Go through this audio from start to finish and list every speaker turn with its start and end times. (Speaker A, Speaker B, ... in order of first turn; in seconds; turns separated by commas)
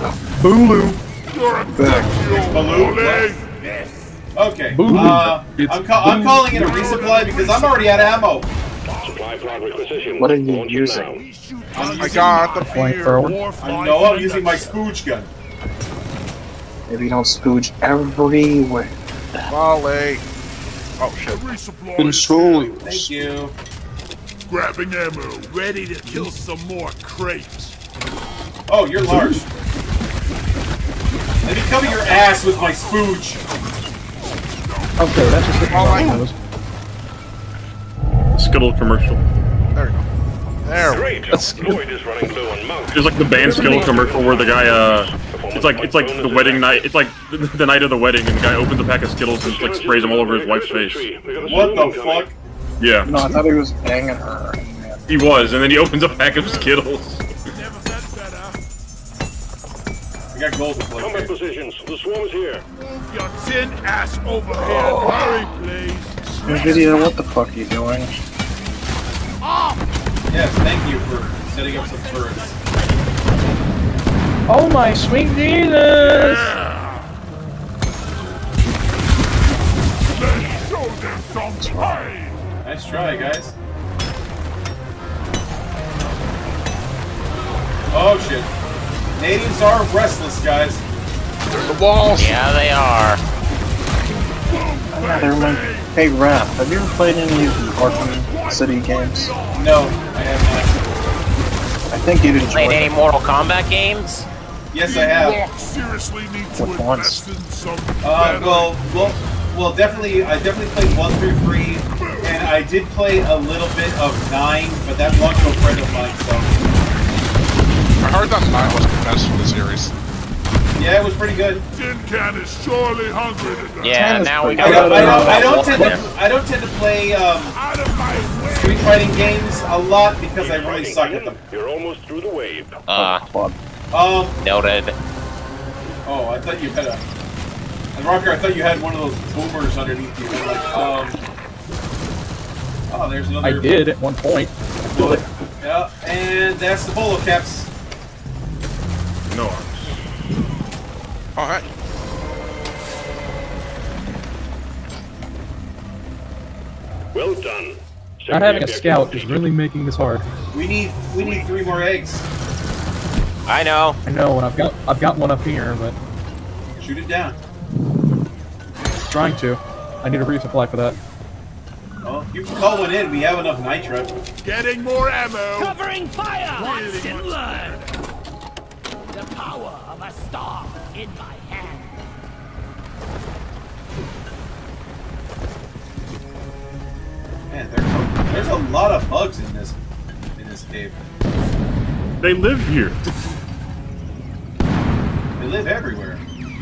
Speaker A: 0.4-1.0, Speaker B: 1.3-4.1, Speaker C: 1.7-2.5, Speaker D: 2.4-3.4, Speaker E: 2.9-3.2, Speaker D: 4.3-8.5, Speaker A: 4.7-7.0, Speaker B: 6.6-10.2, Speaker F: 9.0-11.2, Speaker C: 10.2-11.2, Speaker B: 11.0-14.8, Speaker D: 11.7-12.6, Speaker G: 11.8-12.8, Speaker A: 12.6-13.4, Speaker D: 13.6-15.3, Speaker C: 16.9-19.5, Speaker G: 19.5-20.2, Speaker G: 21.0-21.4, Speaker B: 21.3-23.0, Speaker C: 22.0-23.1, Speaker D: 22.6-23.5, Speaker B: 24.5-27.7, Speaker D: 28.7-29.4, Speaker A: 29.1-29.4, Speaker D: 31.4-33.4, Speaker A: 35.0-36.4, Speaker G: 35.6-36.2, Speaker H: 38.3-39.2, Speaker G: 39.7-40.1, Speaker G: 40.6-41.6, Speaker F: 40.8-46.9, Speaker A: 41.3-41.8, Speaker H: 42.9-51.1, Speaker A: 43.4-44.1, Speaker F: 49.4-52.3, Speaker D: 51.4-52.3, Speaker H: 52.8-53.3, Speaker C: 53.0-55.2, Speaker H: 55.1-57.2, Speaker B: 56.3-56.9, Speaker B: 57.5-58.6, Speaker D: 60.3-61.3, Speaker F: 61.0-62.6, Speaker B: 62.8-67.1, Speaker C: 66.4-68.1, Speaker B: 69.4-69.8, Speaker D: 70.3-72.6, Speaker A: 74.5-76.5, Speaker B: 76.0-77.0, Speaker B: 80.2-82.4, Speaker E: 80.2-80.7, Speaker C: 81.6-82.1, Speaker D: 82.6-83.5, Speaker D: 87.9-88.5, Speaker D: 89.2-90.8, Speaker G: 91.5-92.4, Speaker I: 92.1-93.2, Speaker B: 94.5-95.9, Speaker C: 94.9-99.5, Speaker B: 97.6-99.8, Speaker D: 99.4-100.8, Speaker C: 101.9-103.0, Speaker I: 102.4-104.3, Speaker D: 104.7-105.4, Speaker B: 104.8-109.0, Speaker C: 106.5-107.2, Speaker D: 108.0-116.6, Speaker B: 112.0-112.5, Speaker G: 118.0-119.9, Speaker D: 120.7-121.6, Speaker B: 121.7-124.3, Speaker I: 123.8-126.0, Speaker C: 123.9-126.0, Speaker A: 124.6-126.0, Speaker D: 124.6-127.6, Speaker B: 127.5-129.0, Speaker D: 128.4-131.4, Speaker F: 130.4-132.8, Speaker I: 132.9-133.2, Speaker C: 132.9-133.6, Speaker D: 133.9-134.4, Speaker I: 134.4-134.9, Speaker D: 136.0-137.0, Speaker D: 137.9-141.2, Speaker D: 142.9-143.7, Speaker A: 143.4-145.2, Speaker D: 144.9-147.7, Speaker H: 149.3-150.0, Speaker G: 151.3-151.7, Speaker F: 157.1-159.4, Speaker A: 158.3-160.2, Speaker D: 160.5-162.2, Speaker I: 163.5-164.0, Speaker A: 164.0-165.9, Speaker D: 166.8-167.4, Speaker A: 169.1-171.0, Speaker D: 172.0-174.1, Speaker B: 174.4-175.8, Speaker E: 175.5-177.8, Speaker B: 176.5-177.8, Speaker E: 179.2-181.8, Speaker D: 187.5-189.8, Speaker D: 190.3-191.0, Speaker H: 192.2-193.0, Speaker D: 195.4-196.2